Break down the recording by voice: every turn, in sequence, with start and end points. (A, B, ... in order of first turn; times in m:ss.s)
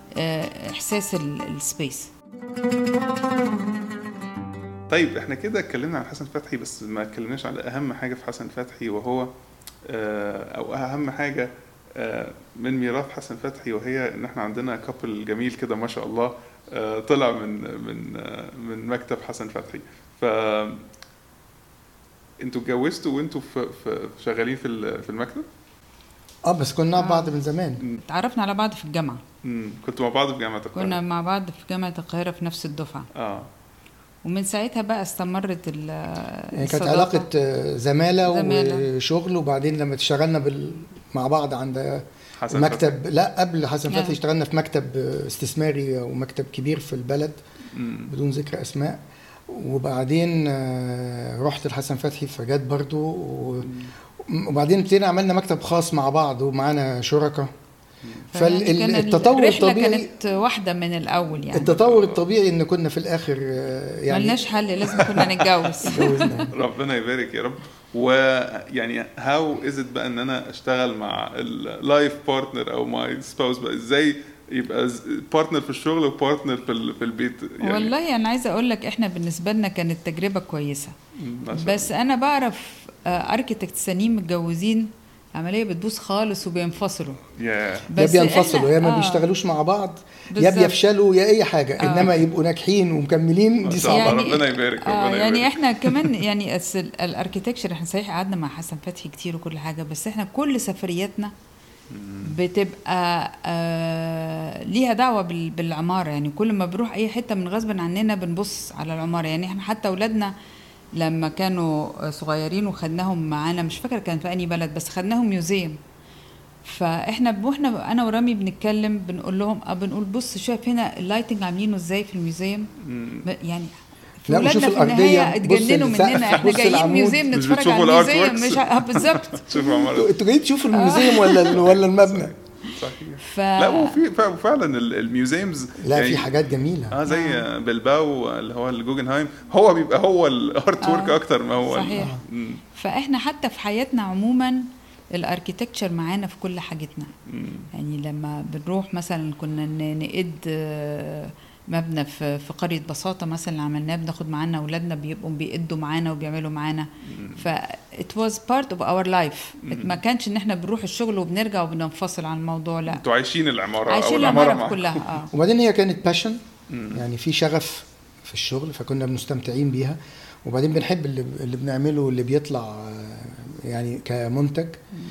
0:00.2-0:02.1 A
0:04.9-0:09.3 B
0:09.8-0:20.8 B
0:22.4-0:25.4 B
0:26.4-0:27.8 C
0:27.0-0:27.3 A
0:28.0-0:29.2 A
0:29.4-0:31.0 B
0:30.7-0:33.1 A
0:33.1-0:33.5 B
0:34.2-0:37.3 A
0:36.5-0:47.4 C
0:38.2-0:38.9 A
0:42.4-0:43.0 B
0:43.9-0:44.2 A
0:47.7-0:48.1 B
0:48.1-0:57.5 C
0:53.6-0:53.9 B
0:58.3-1:01.8 A
0:58.3-1:00.1 C
1:01.5-1:04.5 C
1:01.8-1:02.2 B
1:04.1-1:06.5 A
1:05.8-1:06.5 C
1:06.5-1:17.9 B
1:17.6-1:20.9 A
1:21.2-1:21.9 B
1:21.5-1:27.2 A
1:27.4-1:27.9 B
1:27.9-1:29.2 A
1:28.0-1:34.3 C
1:30.3-1:30.8 A
1:31.8-1:32.1 A
1:33.6-1:36.2 B
1:33.8-1:41.3 A
1:41.9-1:42.3 B
1:42.2-1:50.3 A
1:51.0-1:55.8 A
1:56.6-2:02.7 A
2:02.8-2:03.2 B
2:03.2-2:09.8 A
2:04.3-2:07.2 C
2:07.3-2:10.1 B
2:09.8-2:12.3 C
2:10.7-2:11.6 A
2:11.5-2:16.3 B
2:13.2-2:14.0 A
2:15.8-2:17.0 C
2:16.9-2:22.6 B
2:17.1-2:17.4 A
2:20.8-2:22.2 A
2:22.0-2:22.2 C
2:22.7-2:27.1 A
2:27.3-2:27.7 B
2:27.7-2:43.0 A
2:37.0-2:37.4 B
2:39.6-2:40.0 B
2:42.9-2:45.1 B
2:43.9-2:45.3 A
2:45.3-2:46.4 C
2:46.7-2:47.0 B
2:46.9-2:54.8 C